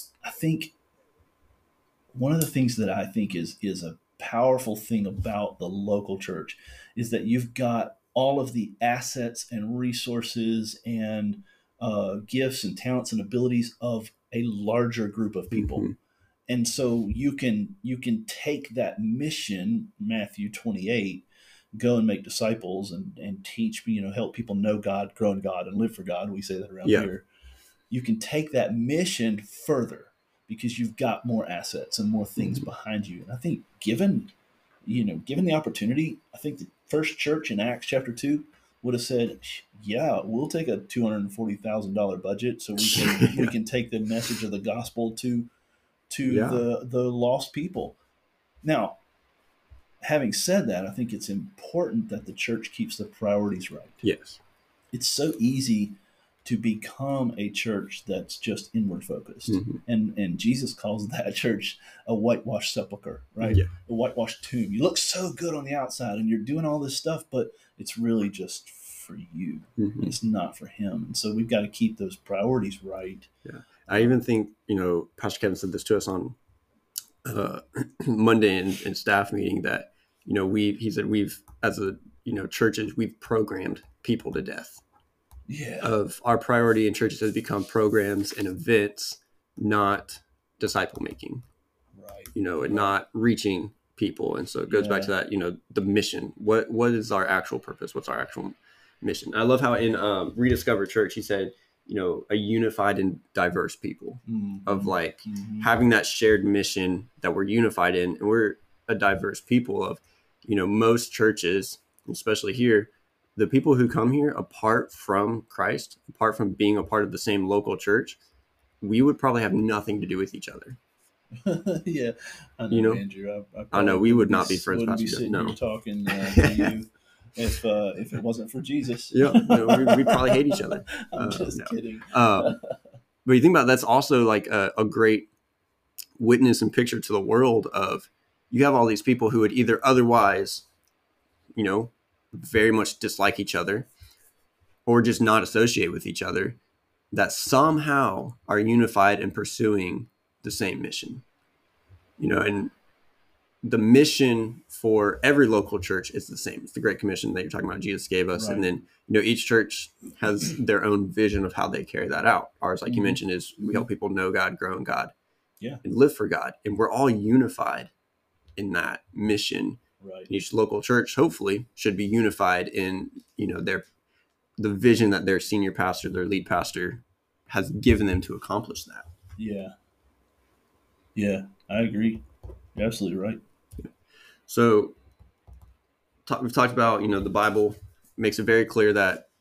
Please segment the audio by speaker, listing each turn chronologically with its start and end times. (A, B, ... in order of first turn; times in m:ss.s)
0:00.2-0:00.7 A
0:02.1-0:15.9 A
0:15.5-0:15.9 B
0:16.5-0:27.2 A
0:27.9-0:34.3 A
0:34.8-0:45.5 A
0:42.8-0:43.5 B
0:46.1-0:48.0 A
0:46.2-0:46.6 B
0:48.6-0:49.0 A
0:50.0-0:54.0 A
0:54.0-0:54.4 B
0:54.9-1:13.3 A
0:59.5-0:59.8 B
1:03.4-1:03.7 B
1:09.8-1:10.1 B
1:13.4-1:16.4 B
1:13.9-1:14.1 A
1:17.2-1:24.8 B
1:25.5-1:25.9 A
1:25.8-1:31.4 B
1:31.9-1:32.9 A
1:32.3-1:58.2 B
1:34.7-1:35.1 A
1:44.2-1:45.7 A
1:58.8-2:00.8 B
2:01.4-2:12.8 A
2:02.7-2:03.0 B
2:03.7-2:05.6 B
2:06.1-2:06.7 B
2:09.1-2:12.6 B
2:13.2-2:15.3 B
2:16.2-2:20.6 B
2:21.6-2:23.9 B
2:24.8-2:26.6 B
2:27.1-2:31.2 B
2:32.2-2:32.7 B
2:33.6-2:45.1 B
2:38.4-2:38.7 A
2:42.9-2:43.2 A
2:45.8-2:47.9 B
2:48.6-2:53.8 B
2:50.0-2:50.3 A
2:54.6-2:59.1 B
2:59.4-2:59.7 A
3:01.1-3:02.2 A
3:02.8-3:03.4 A
3:04.5-3:05.0 B
3:06.2-3:09.3 B